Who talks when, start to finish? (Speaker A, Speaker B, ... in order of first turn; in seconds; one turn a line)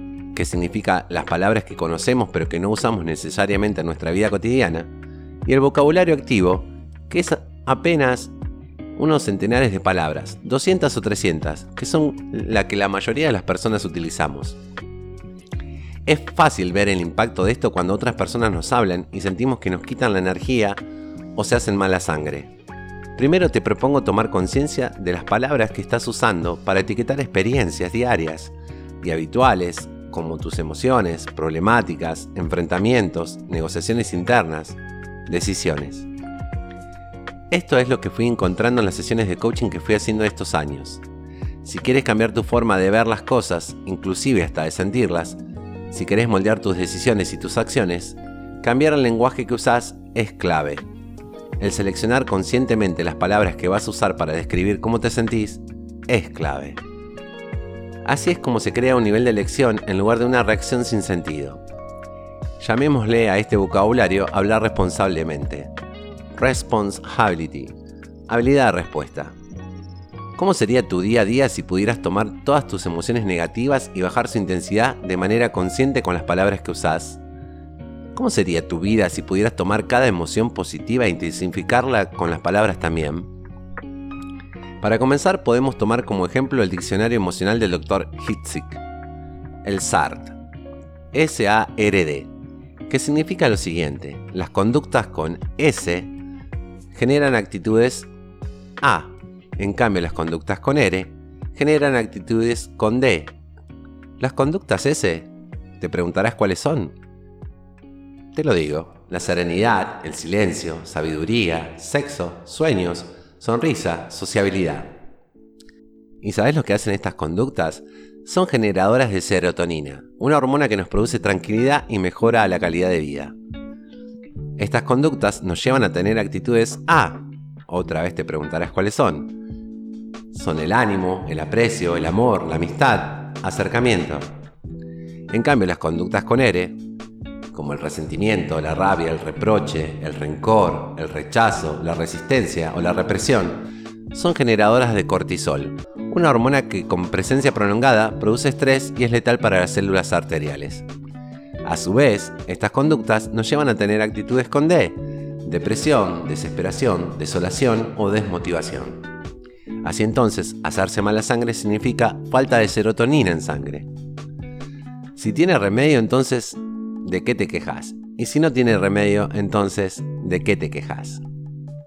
Speaker A: 0.3-4.9
Speaker A: 5.4-8.3
Speaker A: 8.9-14.6
Speaker A: 16.1-20.8
Speaker A: 21.4-22.5
Speaker A: 23.1-36.1
Speaker A: 37.5-41.0
Speaker A: 41.6-45.4
Speaker A: 45.9-50.9
Speaker A: 51.6-56.8
Speaker A: 58.0-61.6
Speaker A: 62.6-65.7
Speaker A: 66.3-67.8
Speaker A: 68.3-69.3
Speaker A: 70.3-77.2
Speaker A: 78.1-83.3
Speaker A: 84.8-88.8
Speaker A: 89.6-90.4
Speaker A: 91.1-92.3
Speaker A: 92.9-96.1
Speaker A: 96.9-98.1
Speaker A: 98.8-103.4
Speaker A: 104.2-106.9
Speaker A: 108.3-115.0
Speaker A: 116.2-123.3
Speaker A: 124.6-129.3
Speaker A: 130.3-134.3
Speaker A: 135.3-136.8
Speaker A: 137.5-150.9
Speaker A: 151.6-159.0
Speaker A: 159.8-163.9
Speaker A: 165.2-171.2